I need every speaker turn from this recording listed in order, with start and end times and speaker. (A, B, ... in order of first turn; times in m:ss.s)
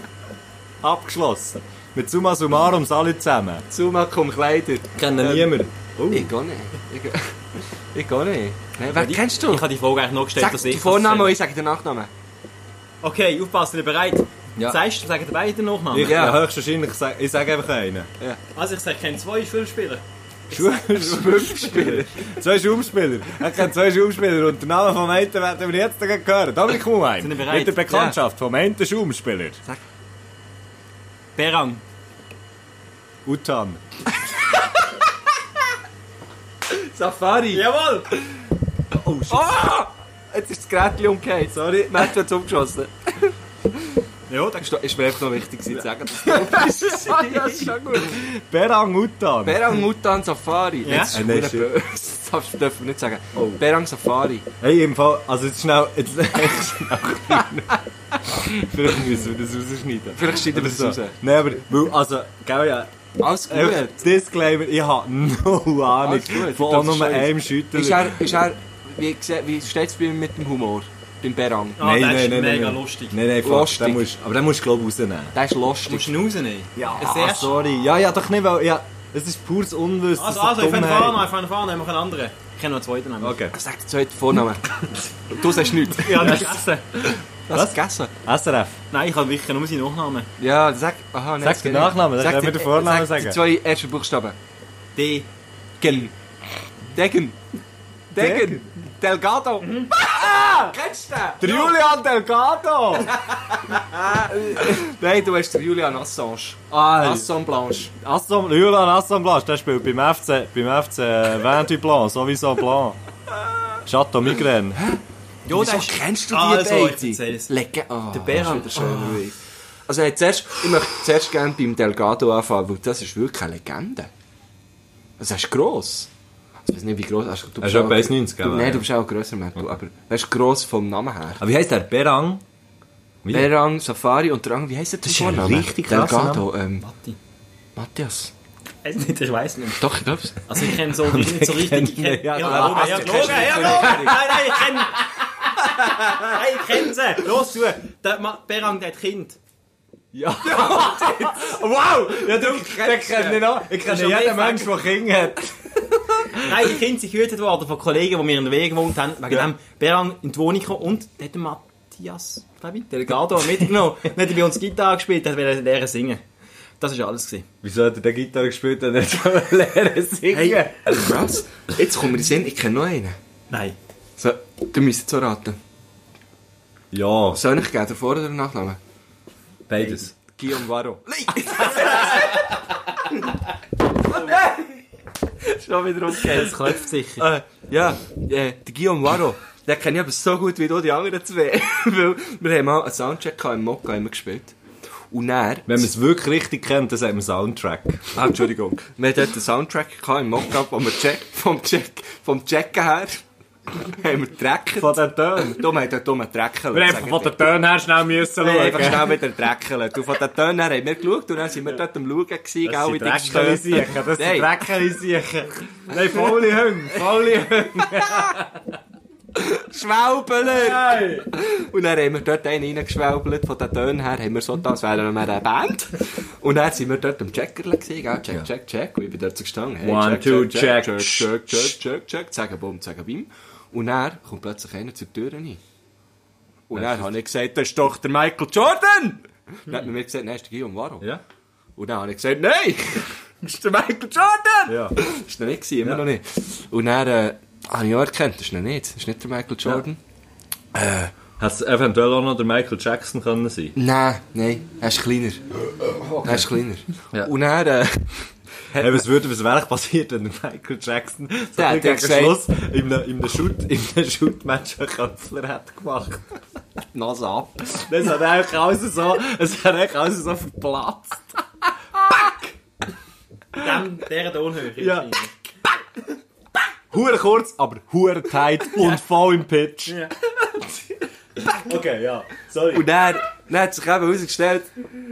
0:00.8-0:03.7 A
0:03.7-0:05.6 B
0:05.0-0:06.3 A
0:06.1-0:07.3 B
0:07.9-0:09.7 B
0:08.9-0:11.4 C
0:10.4-0:12.1 B
0:13.0-0:16.4 C
0:15.9-0:18.1 A
0:16.0-0:16.4 B
0:18.6-0:20.0 C
0:20.5-0:29.6 A
0:20.6-0:22.3 B
0:27.2-0:28.1 C
0:27.9-0:28.2 B
0:31.4-0:31.8 C
0:33.2-0:33.8 A
0:36.7-0:38.2 B
0:37.5-0:38.1 C
0:38.9-0:39.6 A
0:39.3-0:43.9 B
0:41.5-0:42.1 A
0:44.3-0:44.7 C
0:44.6-0:48.2 B
0:46.3-0:49.8 A
0:49.4-0:54.5 B
0:50.8-0:51.1 C
0:51.1-0:51.7 A
0:53.4-0:53.6 A
0:54.6-1:02.9 A
0:58.4-0:58.7 B
1:00.2-1:01.2 B
1:03.2-1:04.0 B
1:03.5-1:08.3 A
1:06.0-1:11.8 B
1:11.8-1:13.2 C
1:11.8-1:15.4 A
1:13.4-1:14.1 B
1:15.3-1:16.1 B
1:15.9-1:17.6 C
1:16.8-1:21.2 A
1:20.2-1:23.4 C
1:23.2-1:23.6 A
1:23.5-1:28.1 B
1:26.0-1:26.8 C
1:26.1-1:26.6 A
1:27.5-1:28.8 A
1:28.9-1:30.3 C
1:30.4-1:34.4 B
1:31.4-1:33.4 A
1:35.0-1:35.3 C
1:35.8-1:36.2 B
1:36.9-1:37.4 B
1:38.1-1:41.8 B
1:38.2-1:38.6 A
1:40.2-1:40.7 A
1:41.4-1:43.1 A
1:43.1-1:47.9 B
1:46.7-1:47.3 A
1:48.0-1:53.0 A
1:53.9-1:54.8 A
1:54.8-2:04.1 B
1:55.5-1:57.5 C
1:58.1-1:59.2 C
2:05.2-2:06.1 B
2:06.6-2:11.4 B
2:07.6-2:08.8 A
2:11.4-2:12.4 A
2:13.2-2:13.5 A
2:13.3-2:16.9 B
2:15.0-2:16.5 A
2:16.8-2:17.2 C
2:17.8-2:18.3 B
2:18.8-2:19.9 C
2:19.8-2:20.5 B
2:20.4-2:25.1 C
2:21.0-2:26.4 A
2:22.4-2:24.4 B
2:25.9-2:29.4 C
2:30.1-2:36.5 A
2:30.4-2:33.6 B
2:33.8-2:34.7 C
2:36.4-2:46.2 C
2:46.8-2:47.5 C
2:47.6-2:51.1 A
2:50.3-2:53.2 B
2:53.5-2:53.8 C
2:54.2-2:55.6 B
2:56.9-2:57.4 A
2:57.3-2:58.8 B
2:59.7-3:00.1 A
2:59.8-3:02.5 B
3:04.0-3:04.8 B
3:05.4-3:14.6 B
3:06.2-3:07.3 C
3:15.1-3:15.9 B
3:15.7-3:18.1 A
3:18.1-3:23.2 B
3:23.7-3:27.4 B
3:24.8-3:25.6 A
3:26.7-3:29.2 A
3:28.4-3:34.6 B
3:32.6-3:38.5 A
3:36.9-3:38.4 B
3:39.4-3:55.6 B
3:40.5-3:41.3 A
3:49.8-3:51.8 A
3:56.7-4:01.1 B
3:56.7-3:57.1 A
4:01.8-4:10.0 B
4:04.7-4:05.0 A
4:10.8-4:11.1 B
4:11.4-4:13.8 A
4:13.8-4:15.4 B
4:16.0-4:16.5 A
4:16.2-4:19.0 B
4:18.8-4:26.4 A
4:21.6-4:22.4 B
4:26.9-4:27.7 B
4:27.7-4:31.4 A
4:32.0-4:32.4 A
4:33.6-4:35.3 C
4:34.8-4:35.1 A
4:36.9-4:40.1 A
4:39.9-4:40.1 C
4:41.5-4:42.9 A
4:42.7-4:44.7 B